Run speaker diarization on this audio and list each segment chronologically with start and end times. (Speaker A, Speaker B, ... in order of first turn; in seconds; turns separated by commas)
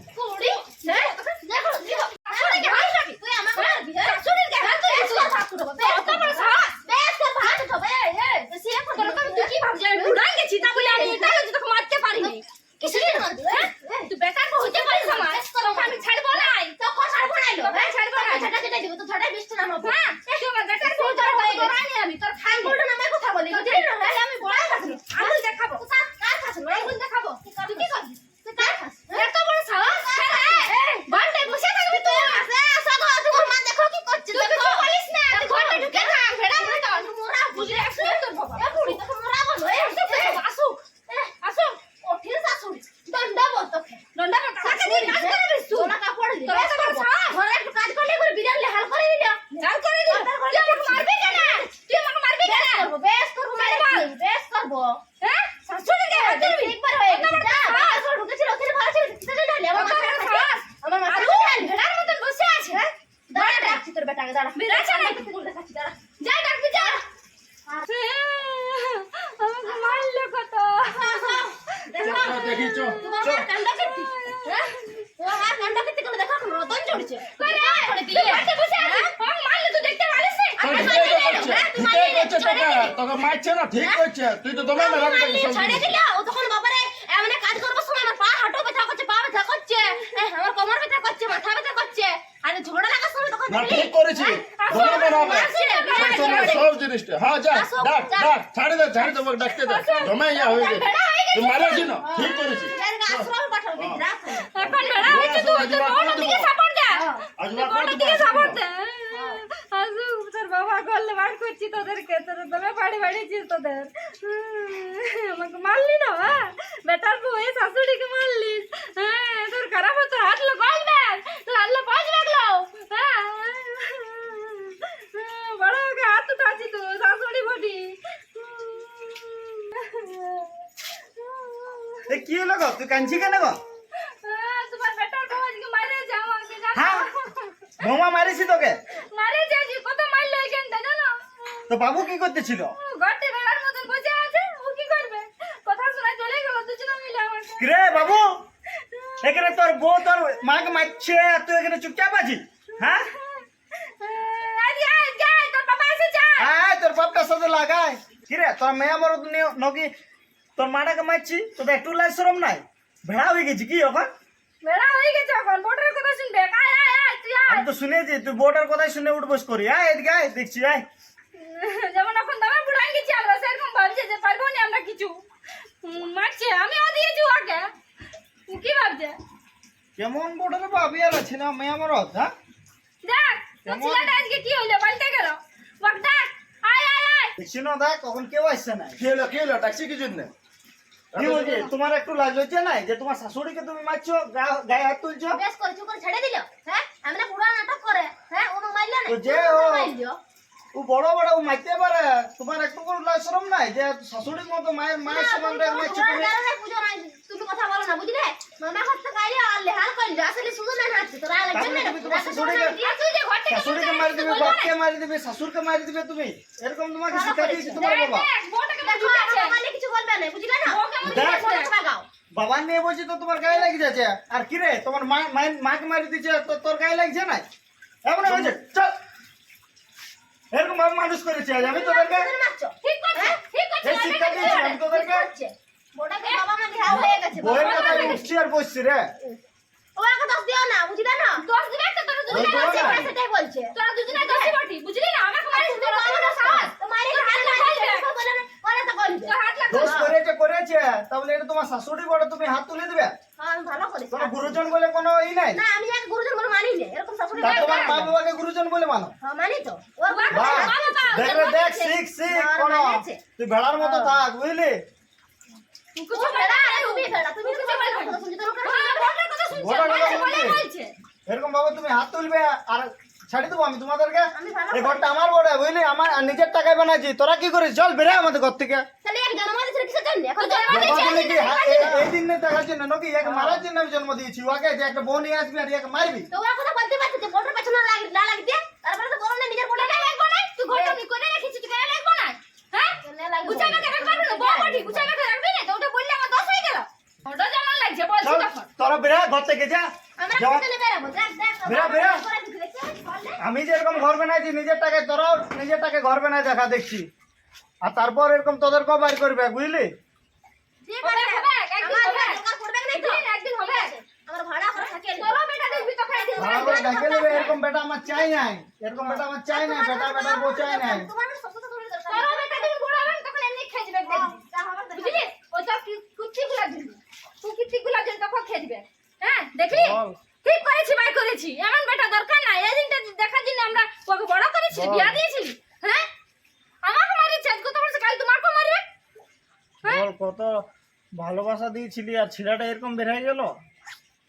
Speaker A: 0.1-3.0, Speaker B: 0.4-11.4, Speaker A: 3.6-6.8, Speaker A: 8.8-16.8, Speaker B: 12.2-21.8, Speaker A: 17.6-18.5, Speaker A: 19.8-22.8, Speaker B: 22.4-26.9, Speaker A: 23.5-25.8, Speaker A: 26.7-28.2, Speaker B: 27.4-40.4, Speaker A: 29.1-32.5, Speaker A: 33.3-33.5, Speaker A: 34.1-39.0, Speaker A: 39.6-40.8, Speaker B: 41.1-41.3, Speaker A: 41.4-41.8, Speaker B: 42.0-44.0, Speaker A: 44.1-45.9, Speaker B: 44.6-51.7, Speaker A: 46.5-47.4, Speaker A: 49.6-52.9, Speaker B: 52.4-55.0, Speaker A: 53.5-54.1, Speaker A: 55.2-58.0, Speaker B: 56.1-62.0, Speaker A: 59.7-63.8, Speaker B: 63.3-66.0, Speaker A: 64.6-65.3, Speaker A: 66.2-67.0, Speaker A: 67.9-71.5, Speaker B: 69.7-70.0, Speaker B: 70.9-74.2, Speaker C: 72.0-73.0, Speaker A: 72.0-75.1, Speaker B: 75.2-79.1, Speaker A: 77.2-81.7, Speaker B: 80.6-83.0, Speaker C: 80.6-85.9, Speaker A: 82.5-82.9, Speaker B: 84.7-93.9, Speaker C: 93.5-104.0, Speaker A: 94.2-96.7, Speaker B: 94.8-96.6, Speaker B: 97.5-98.4, Speaker A: 99.5-102.6, Speaker B: 102.0-105.2, Speaker A: 104.5-132.2, Speaker C: 105.0-106.5, Speaker B: 107.0-107.2, Speaker C: 107.4-108.6, Speaker B: 109.1-109.4, Speaker D: 132.1-133.6, Speaker A: 133.1-133.5, Speaker A: 134.1-137.9, Speaker D: 136.7-137.1, Speaker D: 137.8-138.8, Speaker A: 139.1-141.7, Speaker D: 141.7-142.8, Speaker A: 142.8-148.2, Speaker D: 147.6-148.4, Speaker A: 148.8-149.4, Speaker D: 149.2-153.1, Speaker A: 152.8-156.5, Speaker D: 156.4-159.9, Speaker D: 160.6-164.1, Speaker A: 164.6-167.7, Speaker D: 167.5-170.8, Speaker A: 171.3-175.2, Speaker A: 175.8-177.7, Speaker A: 178.5-179.2, Speaker D: 180.0-182.3, Speaker A: 183.0-187.3, Speaker D: 183.7-184.1, Speaker D: 187.4-189.0, Speaker C: 189.0-190.3, Speaker C: 191.1-191.7, Speaker D: 191.2-195.4, Speaker B: 195.3-200.2, Speaker D: 199.1-199.9, Speaker D: 200.7-206.3, Speaker B: 205.1-212.9, Speaker D: 211.5-212.8, Speaker A: 212.7-214.7, Speaker D: 213.5-218.3, Speaker B: 217.1-217.9, Speaker A: 217.7-219.6, Speaker B: 218.8-222.1, Speaker A: 220.7-221.7, Speaker D: 221.0-221.5, Speaker D: 222.3-227.5, Speaker D: 228.1-228.9, Speaker D: 230.5-232.3, Speaker B: 231.6-233.4, Speaker A: 232.8-234.9, Speaker D: 233.8-235.3, Speaker B: 234.3-238.2, Speaker A: 236.2-238.2, Speaker D: 237.0-239.1, Speaker B: 239.9-241.4, Speaker A: 241.4-243.1, Speaker D: 242.3-243.1, Speaker B: 242.3-244.6, Speaker A: 243.7-248.1, Speaker B: 245.5-250.1, Speaker A: 249.3-250.1, Speaker D: 249.7-253.2, Speaker B: 253.4-254.6, Speaker D: 254.1-255.6, Speaker B: 255.5-258.1, Speaker A: 257.4-258.1, Speaker D: 257.4-259.1, Speaker B: 259.2-261.3, Speaker A: 260.1-262.0, Speaker D: 260.3-264.8, Speaker B: 262.3-263.2, Speaker B: 263.8-264.2, Speaker A: 265.9-270.9, Speaker B: 266.1-269.1, Speaker D: 269.5-270.6, Speaker D: 271.3-278.9, Speaker B: 274.3-275.1, Speaker B: 279.0-281.8, Speaker A: 280.4-282.1, Speaker D: 280.7-286.3, Speaker B: 283.2-283.6, Speaker B: 286.3-290.2, Speaker A: 289.8-298.7, Speaker B: 290.7-291.0, Speaker B: 293.0-295.1, Speaker D: 298.2-300.6, Speaker B: 300.2-303.4, Speaker D: 301.7-302.2, Speaker D: 303.4-307.1, Speaker D: 307.8-309.9, Speaker B: 310.9-318.4, Speaker A: 311.0-312.4, Speaker A: 312.9-313.9, Speaker A: 315.0-317.5, Speaker D: 316.4-321.1, Speaker B: 319.0-322.7, Speaker A: 322.1-324.4, Speaker B: 324.1-325.3, Speaker A: 324.9-336.1, Speaker D: 329.7-330.2, Speaker D: 334.7-335.2, Speaker A: 336.8-338.8, Speaker D: 339.8-343.6